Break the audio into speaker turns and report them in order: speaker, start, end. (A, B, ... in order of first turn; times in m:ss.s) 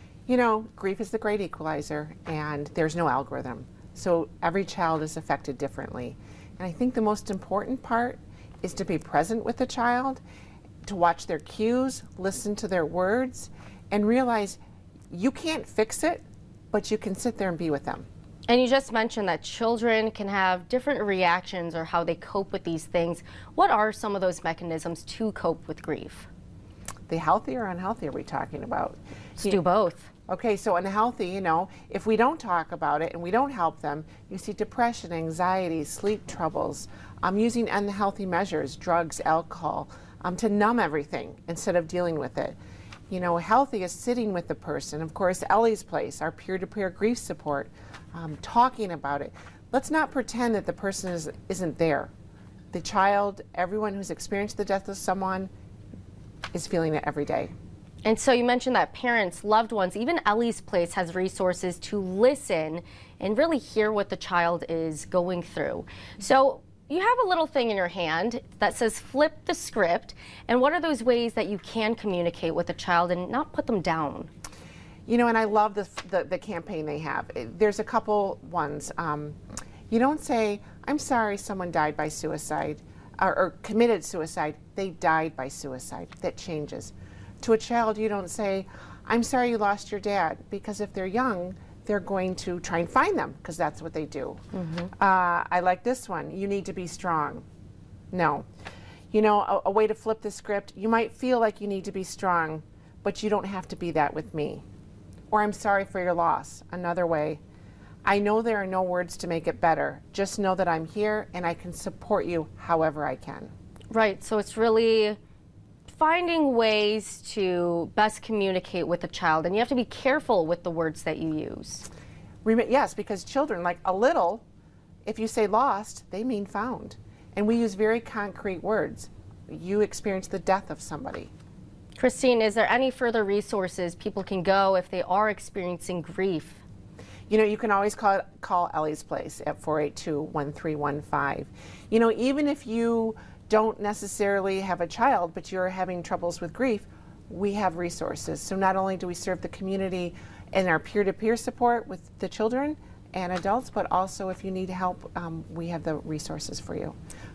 0:00.3-0:10.2 A
0:10.8-0:14.6 A
0:15.1-0:18.1 A
0:18.5-0:26.3 B
0:27.1-0:29.6 A
0:29.4-0:30.1 B
0:30.3-0:42.6 A
0:43.1-0:52.1 A
0:52.7-0:55.5 A
0:56.5-0:57.5 A
0:58.0-1:14.3 B
1:15.1-1:19.4 A
1:19.9-1:34.4 A
1:34.5-1:34.9 B
1:34.9-1:37.4 A
1:38.1-1:38.5 A
1:39.1-1:44.6 A
1:45.3-1:47.4 A
1:48.0-1:53.5 A
1:53.9-1:55.2 B
1:55.9-2:01.8 B
2:02.4-2:04.4 A
2:05.0-2:11.3 A
2:12.0-2:16.6 B
2:17.3-2:37.0 A